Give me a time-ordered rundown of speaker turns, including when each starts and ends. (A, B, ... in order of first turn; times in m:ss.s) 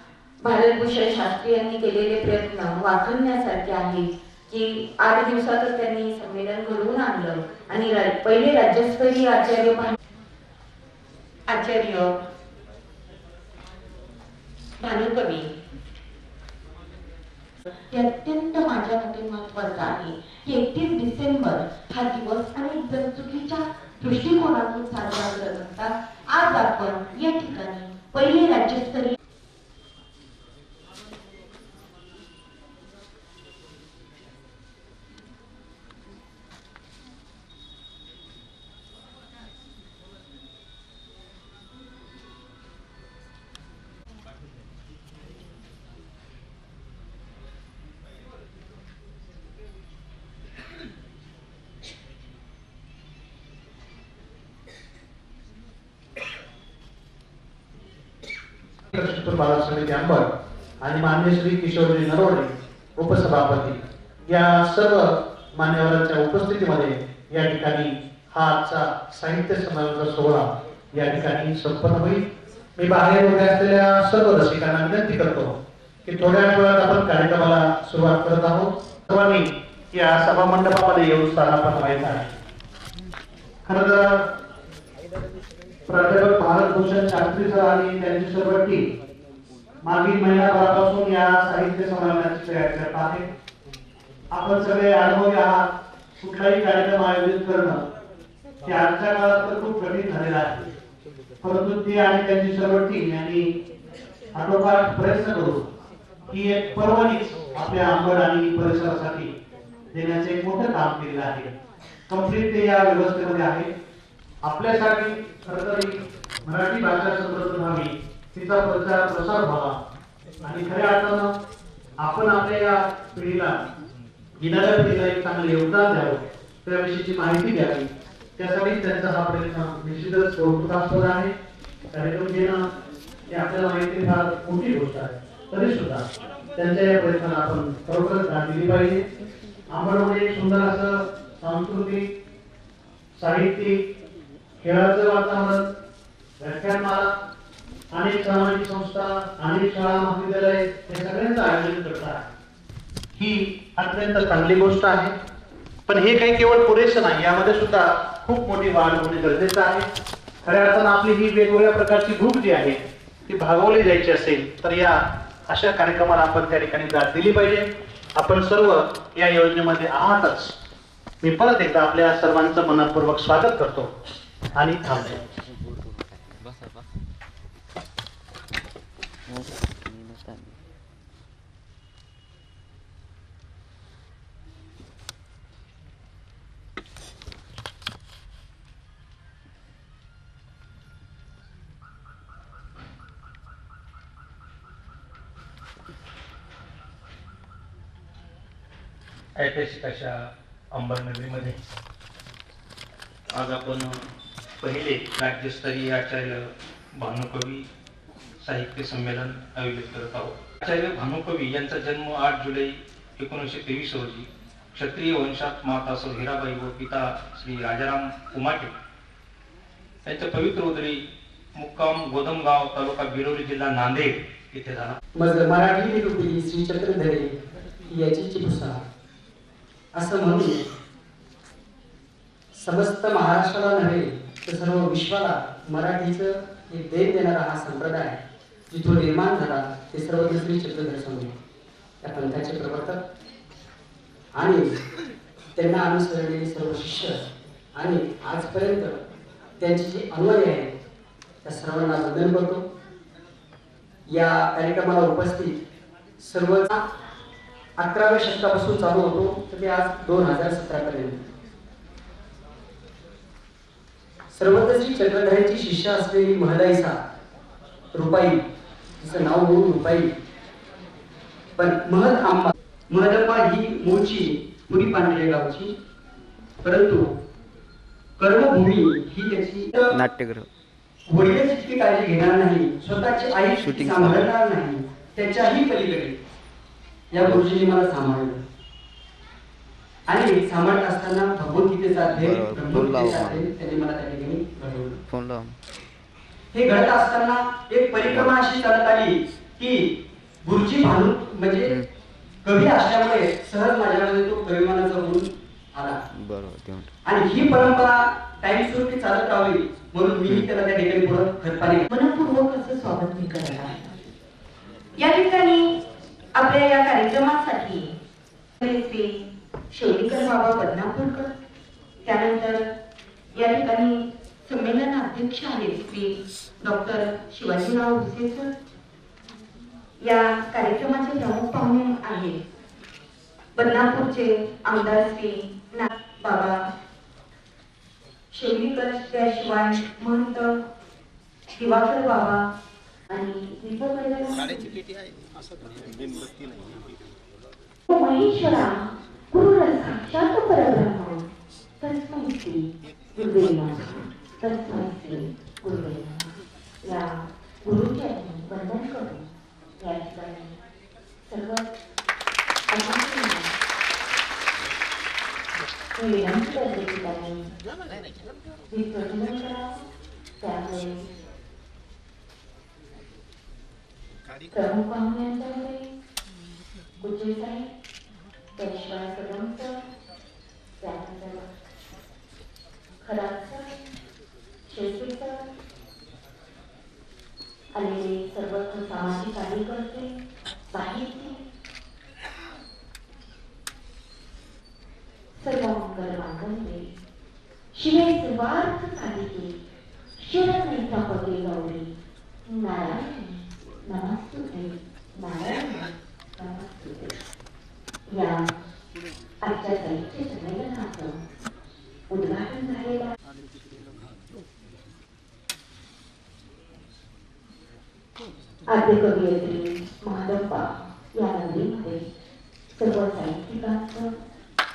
0:00.4-0:10.0 A
0:11.5-0:12.2 A
0:14.8-0:15.5 A
0:17.9-0:29.2 A
0:58.9-1:00.3 B
1:00.8-1:22.3 B
1:23.7-1:24.3 B
1:25.9-1:28.8 B
1:29.8-1:33.3 B
1:34.3-1:35.7 B
1:36.2-1:37.9 B
1:38.6-1:40.7 B
1:41.4-1:43.5 B
1:44.4-1:45.7 B
1:46.3-1:49.3 B
1:49.9-1:51.5 B
1:52.1-1:53.7 B
1:54.4-1:59.8 B
2:00.4-2:01.3 B
2:02.0-2:03.6 B
2:04.4-2:11.3 B
2:11.9-2:12.6 B
2:13.3-2:16.1 B
2:16.6-2:19.0 B
2:19.7-2:22.0 B
2:23.2-2:23.8 B
2:24.6-2:25.7 B
2:26.4-2:27.1 B
2:27.9-2:32.3 B
2:33.2-2:35.1 B
2:35.9-2:39.9 B
2:40.4-2:50.6 B
2:51.2-2:53.9 B
2:54.6-2:55.2 B
2:55.4-2:56.8 C
2:59.3-3:00.6 C
3:19.4-3:20.2 D
3:20.7-3:21.6 D
3:23.3-3:24.0 D
3:24.6-3:27.6 D
3:28.4-3:38.7 D
3:40.0-3:41.0 D
3:41.6-3:45.0 D
3:45.2-3:47.4 E
3:47.9-3:48.8 E
3:50.0-3:50.7 E
3:52.6-3:58.2 E
3:58.7-4:01.3 E
4:02.0-4:03.0 E
4:04.3-4:04.8 E
4:05.6-4:09.1 E
4:09.6-4:10.8 E
4:11.4-4:12.6 E
4:14.1-4:15.6 E
4:16.2-4:16.9 E
4:17.8-4:21.3 E
4:24.3-4:27.0 E
4:27.9-4:28.4 E
4:29.0-4:30.1 E
4:31.6-4:35.8 E
4:36.6-4:37.1 E
4:38.2-4:39.9 E
4:39.9-4:40.5 C
4:41.1-4:46.2 E
4:43.6-4:44.3 C
4:47.1-4:48.4 E
4:50.1-4:55.0 E
4:52.1-4:53.5 C
4:55.1-4:55.6 C
4:56.5-4:59.9 E
4:58.0-4:58.3 C
5:00.4-5:01.8 E
5:02.4-5:06.0 E
5:06.1-5:06.9 C
5:07.0-5:11.9 E
5:11.9-5:14.1 A
5:15.0-5:15.8 A
5:16.4-5:18.0 A
5:18.6-5:21.3 A
5:22.0-5:22.7 A
5:23.4-5:28.5 A
5:30.0-5:32.4 A
5:33.6-5:36.7 A
5:38.3-5:40.6 A
5:41.5-5:42.5 A
5:43.1-5:44.8 A
5:47.9-5:51.3 A
5:51.8-5:59.3 A
5:59.8-6:00.6 A
6:01.3-6:01.7 A
6:02.7-6:03.5 A
6:06.0-6:07.5 A
6:08.7-6:09.8 A
6:10.4-6:11.1 A
6:14.5-6:15.9 A
6:17.0-6:17.7 A
6:18.6-6:19.8 A
6:20.8-6:21.5 A
6:23.0-6:23.8 A
6:24.7-6:25.5 A
6:27.8-6:30.1 A
6:30.7-6:31.4 A
6:35.4-6:36.9 A
6:37.7-6:39.6 A
6:40.2-6:42.0 A
6:42.5-6:47.2 A
6:48.1-6:48.5 A
6:49.4-6:51.2 A
6:52.1-6:53.1 A
6:58.7-7:02.0 A
7:02.8-7:04.2 A